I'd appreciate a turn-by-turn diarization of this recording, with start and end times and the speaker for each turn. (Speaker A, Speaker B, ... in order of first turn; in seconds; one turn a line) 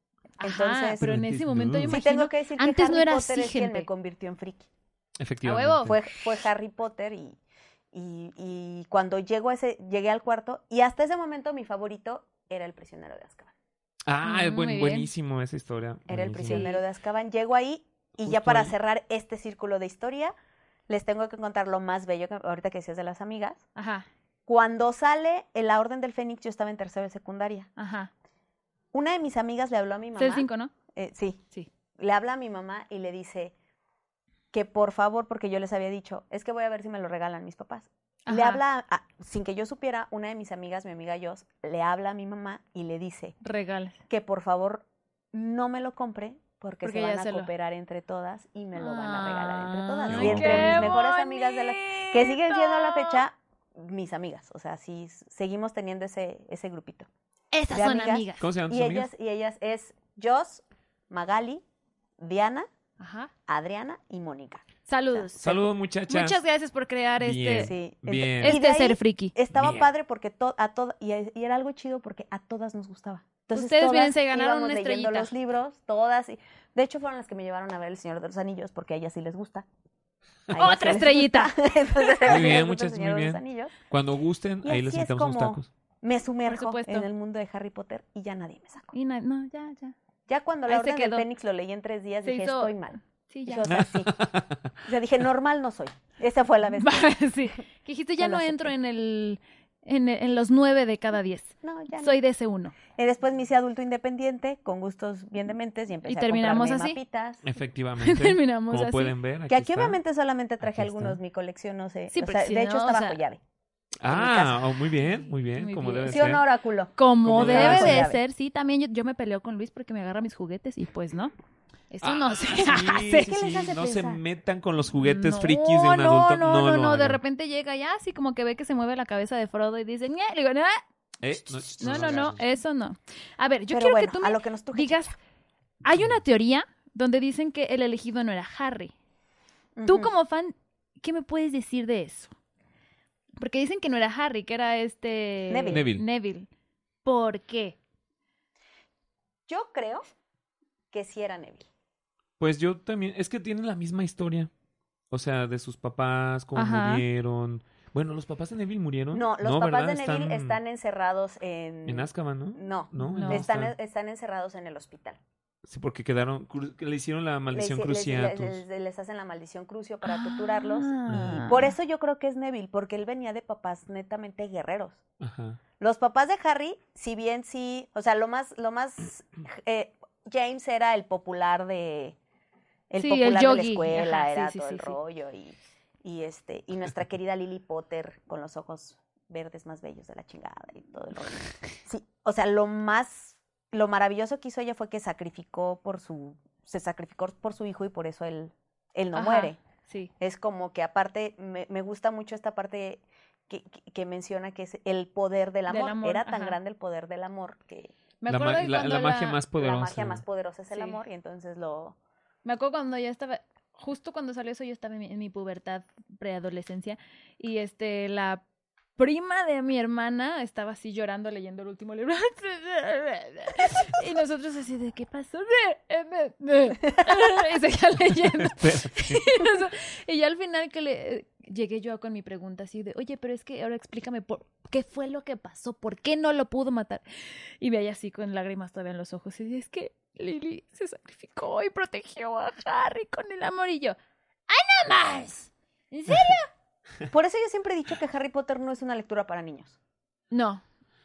Speaker A: 0.4-3.9
Speaker B: 0.4-1.1
Speaker C: 1.0-2.0
Speaker B: 1.9-4.7
Speaker C: 5.2-6.0
Speaker A: 5.4-5.9
Speaker B: 5.8-7.4
Speaker B: 7.9-13.5
Speaker C: 14.1-16.7
Speaker A: 14.2-15.1
Speaker B: 16.1-20.3
Speaker A: 16.4-16.8
Speaker C: 18.2-18.7
Speaker B: 20.9-23.6
Speaker A: 23.8-24.1
Speaker B: 24.5-27.7
Speaker A: 27.8-28.1
Speaker B: 28.9-31.4
Speaker A: 30.2-30.7
Speaker B: 32.0-33.5
Speaker B: 34.5-43.4
Speaker A: 38.3-38.6
Speaker A: 43.4-44.0
Speaker B: 44.1-57.1
Speaker A: 46.8-47.5
Speaker A: 48.8-53.2
Speaker C: 50.1-51.0
Speaker A: 57.5-58.5
Speaker B: 57.7-61.6
Speaker C: 58.4-59.1
Speaker B: 62.2-62.7
Speaker A: 63.0-63.3
Speaker B: 63.5-65.5
Speaker A: 64.9-65.5
Speaker C: 65.4-66.4
Speaker A: 66.1-67.7
Speaker C: 67.2-68.6
Speaker B: 67.6-79.7
Speaker A: 68.4-69.3
Speaker C: 69.5-69.9
Speaker A: 73.5-75.3
Speaker B: 80.5-83.7
Speaker A: 80.5-82.6
Speaker C: 82.3-85.7
Speaker B: 84.6-88.9
Speaker A: 86.5-87.1
Speaker A: 88.9-90.0
Speaker B: 90.3-94.3
Speaker A: 90.7-91.3
Speaker A: 92.2-93.7
Speaker C: 93.7-94.7
Speaker B: 94.8-97.1
Speaker A: 96.8-102.8
Speaker B: 98.2-98.7
Speaker B: 101.6-102.2
Speaker B: 102.9-107.4
Speaker A: 106.0-107.0
Speaker C: 107.4-110.0
Speaker A: 108.0-109.1
Speaker B: 109.5-113.4
Speaker C: 110.6-111.2
Speaker A: 112.1-113.2
Speaker C: 114.0-116.4
Speaker B: 114.0-114.6
Speaker A: 115.5-116.2
Speaker B: 116.1-118.2
Speaker A: 117.0-121.3
Speaker C: 117.2-118.1
Speaker A: 121.9-123.3
Speaker C: 122.0-127.2
Speaker B: 123.1-124.2
Speaker A: 125.0-130.8
Speaker C: 131.2-132.4
Speaker A: 131.8-135.1
Speaker B: 133.7-135.1
Speaker A: 135.8-138.9
Speaker B: 139.8-140.1
Speaker A: 139.9-142.3
Speaker A: 143.4-146.5
Speaker B: 145.5-145.8
Speaker C: 145.7-146.1
Speaker A: 147.1-147.8
Speaker B: 149.5-150.1
Speaker B: 150.9-151.7
Speaker C: 152.4-154.5
Speaker C: 155.1-160.6
Speaker A: 156.6-157.0
Speaker B: 159.1-165.2
Speaker C: 161.9-163.7
Speaker A: 163.0-163.4
Speaker C: 165.6-168.6
Speaker B: 167.5-175.0
Speaker A: 170.0-171.7
Speaker C: 171.1-171.4
Speaker C: 175.2-175.6
Speaker B: 175.8-182.2
Speaker B: 182.9-199.6
Speaker A: 183.0-185.0
Speaker A: 199.1-200.1
Speaker B: 200.2-207.9
Speaker A: 205.7-206.6
Speaker A: 208.2-209.4
Speaker C: 208.3-210.2
Speaker B: 209.5-211.9
Speaker A: 210.7-211.0
Speaker A: 212.4-218.4
Speaker A: 219.0-244.0
Speaker C: 228.2-229.4
Speaker A: 244.5-246.5
Speaker B: 247.1-249.8
Speaker A: 250.3-250.6